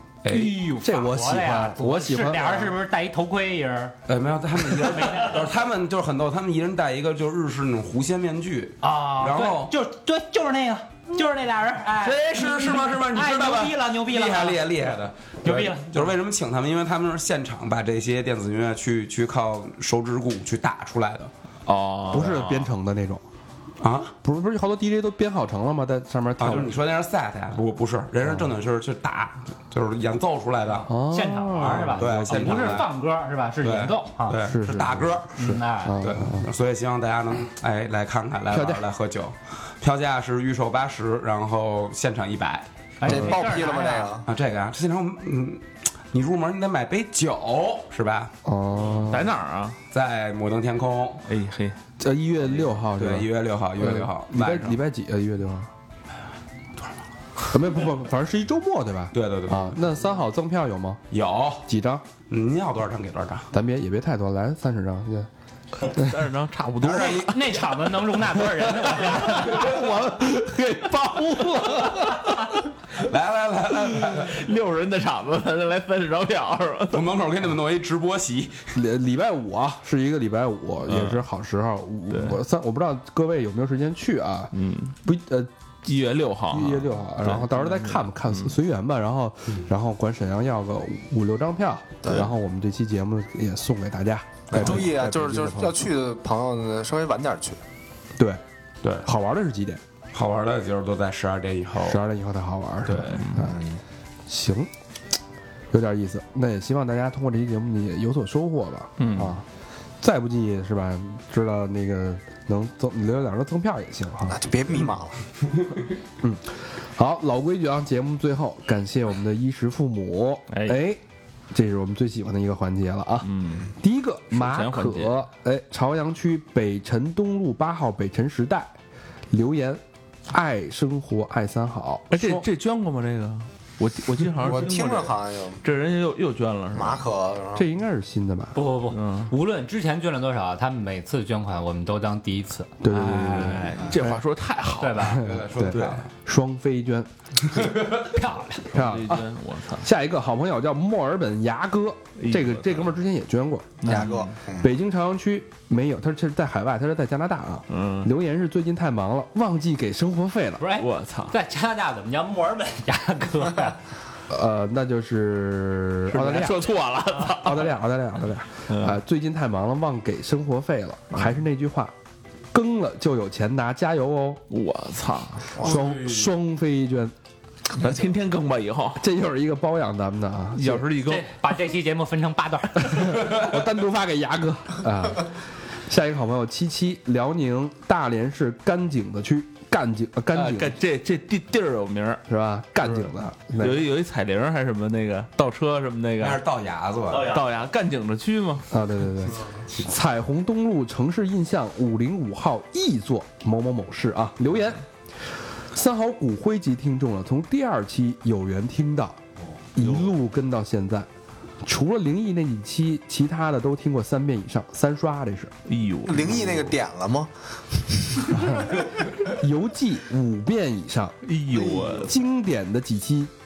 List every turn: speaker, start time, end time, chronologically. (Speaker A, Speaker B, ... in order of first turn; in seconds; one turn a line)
Speaker A: 0.2-0.6
Speaker B: 0.3-4.0
Speaker C: 0.7-2.8
Speaker A: 4.1-9.7
Speaker B: 4.7-5.4
Speaker B: 8.8-14.6
Speaker A: 11.8-21.3
Speaker B: 15.4-16.1
Speaker D: 21.7-22.8
Speaker C: 22.1-23.2
Speaker A: 23.8-24.1
Speaker C: 24.2-26.8
Speaker A: 26.4-30.9
Speaker C: 30.9-32.9
Speaker B: 31.1-34.4
Speaker A: 31.6-32.9
Speaker A: 33.6-42.7
Speaker C: 34.4-36.5
Speaker B: 35.4-36.1
Speaker C: 38.5-38.9
Speaker B: 43.0-44.1
Speaker E: 43.0-44.3
Speaker A: 44.2-48.3
Speaker C: 48.5-49.3
Speaker D: 49.0-49.8
Speaker A: 49.9-51.2
Speaker D: 51.3-51.8
Speaker C: 52.0-55.7
Speaker A: 53.0-54.8
Speaker C: 57.5-61.0
Speaker A: 59.1-59.8
Speaker A: 61.1-61.6
Speaker C: 61.7-62.1
Speaker A: 62.2-63.5
Speaker C: 63.5-65.3
Speaker D: 65.8-67.5
Speaker C: 65.8-66.2
Speaker A: 66.8-67.3
Speaker B: 67.1-69.8
Speaker C: 69.4-72.0
Speaker A: 73.0-74.4
Speaker D: 73.9-77.2
Speaker A: 76.9-78.6
Speaker C: 78.7-84.5
Speaker D: 80.9-81.2
Speaker D: 82.1-82.4
Speaker D: 84.5-85.0
Speaker C: 85.0-85.5
Speaker D: 85.8-88.5
Speaker C: 86.5-95.8
Speaker E: 94.5-97.6
Speaker C: 98.2-98.4
Speaker C: 99.0-99.8
Speaker A: 100.1-102.0
Speaker C: 101.8-103.6
Speaker D: 102.9-103.5
Speaker E: 103.4-103.8
Speaker C: 104.3-104.7
Speaker C: 105.7-109.5
Speaker D: 109.0-109.4
Speaker C: 110.0-114.4
Speaker E: 114.3-115.2
Speaker C: 116.2-121.0
Speaker D: 120.5-120.8
Speaker C: 121.5-128.8
Speaker D: 123.2-123.7
Speaker D: 124.3-125.2
Speaker C: 129.3-132.5
Speaker D: 132.1-137.0
Speaker E: 134.4-135.6
Speaker E: 136.7-137.7
Speaker C: 137.6-138.6
Speaker B: 138.6-142.8
Speaker D: 138.9-139.3
Speaker C: 142.8-144.2
Speaker D: 142.9-145.2
Speaker B: 144.8-145.3
Speaker C: 145.0-147.8
Speaker A: 145.1-146.1
Speaker A: 147.5-148.1
Speaker B: 147.9-148.7
Speaker C: 148.7-154.1
Speaker D: 148.7-149.9
Speaker D: 152.2-153.0
Speaker D: 153.8-154.3
Speaker E: 153.9-154.7
Speaker C: 154.6-160.6
Speaker D: 157.7-158.1
Speaker B: 160.6-163.8
Speaker D: 160.8-161.3
Speaker C: 164.3-166.7
Speaker D: 166.1-167.8
Speaker C: 167.2-171.9
Speaker D: 168.7-169.0
Speaker C: 172.5-174.4
Speaker D: 174.5-175.6
Speaker C: 175.6-177.1
Speaker A: 175.6-176.3
Speaker D: 177.8-179.0
Speaker C: 179.0-180.9
Speaker D: 180.6-181.3
Speaker B: 181.0-183.2
Speaker C: 182.8-190.8
Speaker D: 190.3-192.2
Speaker C: 192.3-193.9
Speaker D: 192.8-196.4
Speaker A: 196.2-197.4
Speaker D: 197.1-198.7
Speaker C: 198.7-204.8
Speaker C: 205.7-209.2
Speaker C: 209.8-211.1
Speaker D: 209.8-210.1
Speaker C: 211.6-215.5
Speaker D: 215.7-216.7
Speaker E: 216.1-218.6
Speaker C: 218.4-218.8
Speaker C: 219.3-223.3
Speaker D: 221.2-222.2